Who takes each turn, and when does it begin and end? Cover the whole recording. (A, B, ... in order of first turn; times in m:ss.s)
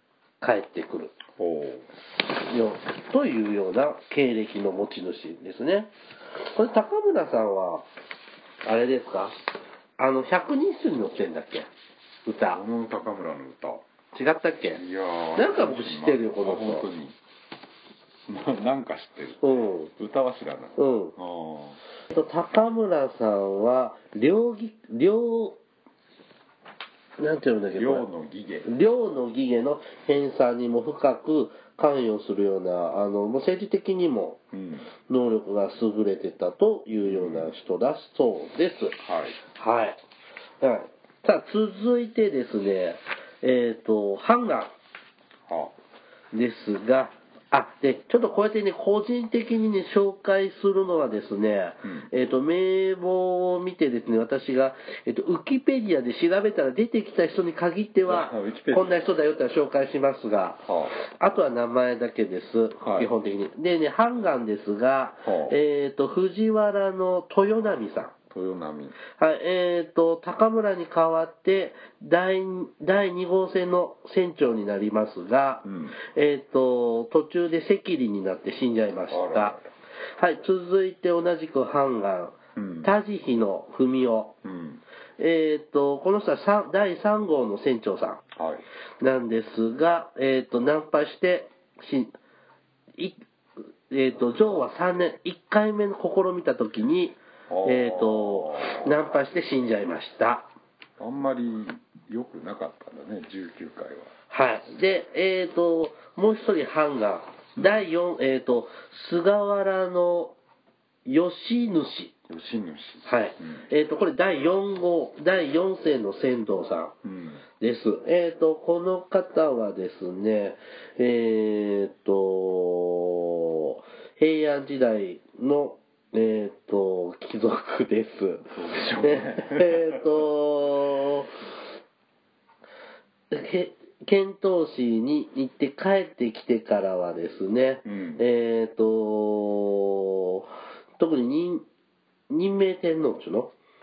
0:00.4-0:01.1 A
0:01.4-0:01.8 B
0:02.3-0:05.9 A
0:06.4-0:07.9 A
0:08.6-0:09.4 A
0:10.0-0:11.7 A
0:12.2-0:12.6 A
0:12.5-0:13.8 B
0:14.1-0:14.8 A
0:14.7-0:17.2 B
0:15.4-0:16.9 A
0:18.3-0:21.8 B
0:19.4-0:19.9 A
0:20.8-0:21.1 A
0:22.1-0:25.6 A
0:27.2-0:28.1 A
0:27.7-0:28.7 B
0:28.6-0:34.4 A
0:34.5-0:34.9 B
0:35.1-0:39.0 A
0:37.0-0:37.5 B
0:39.0-0:39.4 B
0:39.5-0:40.0 A
0:40.6-0:44.7 A
0:45.5-0:45.7 B
0:46.3-1:08.1 A
0:51.8-0:52.1 B
0:58.0-0:59.0 B
1:00.6-1:01.0 B
1:02.8-1:03.1 B
1:05.2-1:05.6 B
1:08.3-1:09.0 B
1:09.1-1:19.6 A
1:15.6-1:16.0 B
1:19.1-1:19.7 B
1:20.2-1:24.3 A
1:22.6-1:22.9 B
1:24.4-1:24.8 B
1:25.2-1:28.2 A
1:28.3-1:28.6 B
1:29.0-1:32.1 A
1:33.9-1:40.5 A
1:37.5-1:38.9 B
1:41.0-1:44.1 B
1:44.3-1:50.4 A
1:47.6-1:47.8 B
1:51.0-1:52.1 A
1:52.3-1:53.6 B
1:53.0-1:56.9 A
1:57.0-1:57.4 B
1:57.6-2:11.3 A
2:08.5-2:10.0 B
2:13.3-2:21.6 A
2:17.8-2:18.2 B
2:22.3-2:23.5 A